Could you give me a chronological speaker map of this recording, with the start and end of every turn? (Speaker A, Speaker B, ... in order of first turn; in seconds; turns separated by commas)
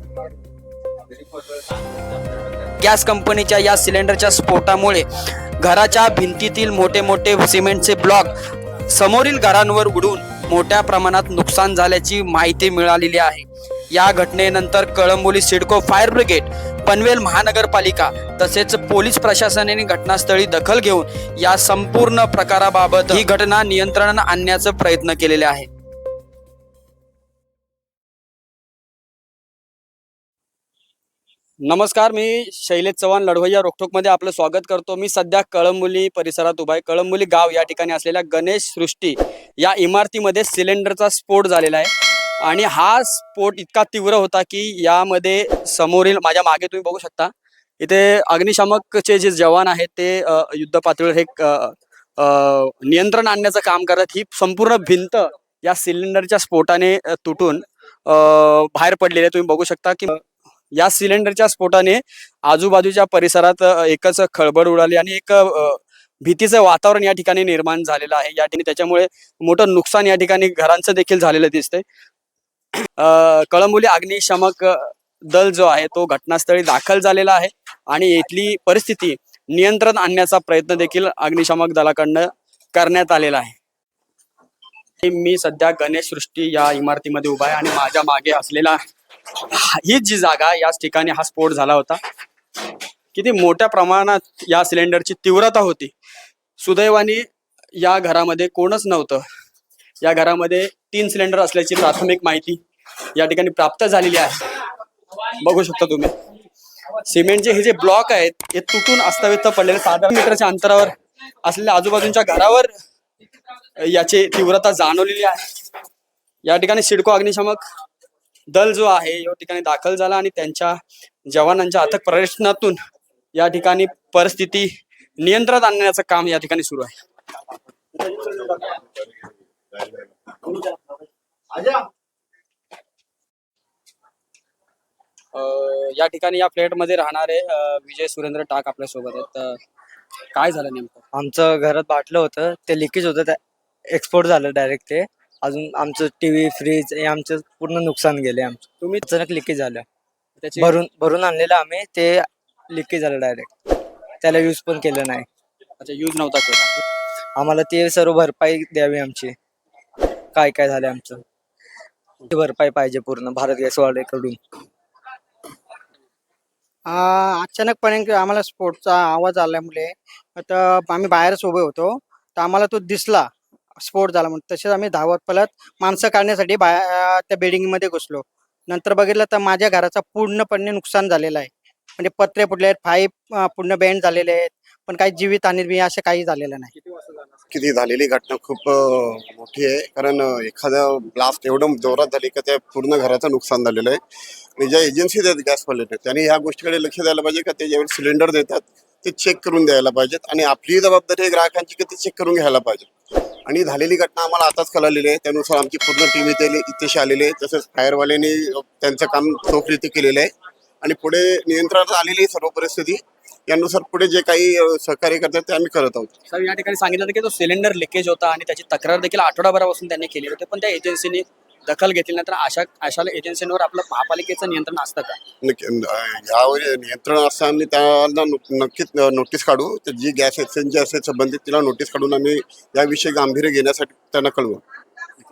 Speaker A: 2.8-5.1, Speaker A: 5.6-25.7, Speaker A: 31.6-71.8, Speaker A: 73.0-83.6, Speaker A: 85.0-88.8, Speaker A: 89.5-92.0, Speaker A: 93.1-95.9, Speaker A: 96.6-99.2, Speaker A: 100.0-102.6, Speaker A: 103.2-104.6, Speaker A: 105.2-106.1, Speaker A: 107.0-112.7, Speaker A: 113.8-115.5, Speaker A: 116.4-117.6, Speaker A: 118.5-122.8, Speaker A: 123.3-124.7, Speaker A: 125.2-127.0, Speaker A: 135.3-139.6, Speaker A: 140.3-141.0, Speaker B: 141.1-143.4, Speaker B: 143.9-149.9, Speaker A: 150.4-150.7, Speaker B: 150.6-153.5, Speaker B: 154.2-155.3, Speaker A: 155.8-156.8, Speaker B: 157.4-159.3, Speaker B: 160.3-161.2, Speaker B: 162.3-164.4, Speaker C: 166.9-173.3, Speaker C: 173.8-186.7, Speaker A: 186.8-187.4, Speaker D: 187.5-194.0, Speaker D: 194.6-202.9, Speaker D: 203.5-210.3, Speaker D: 210.8-216.1, Speaker A: 216.3-225.2, Speaker D: 225.4-234.6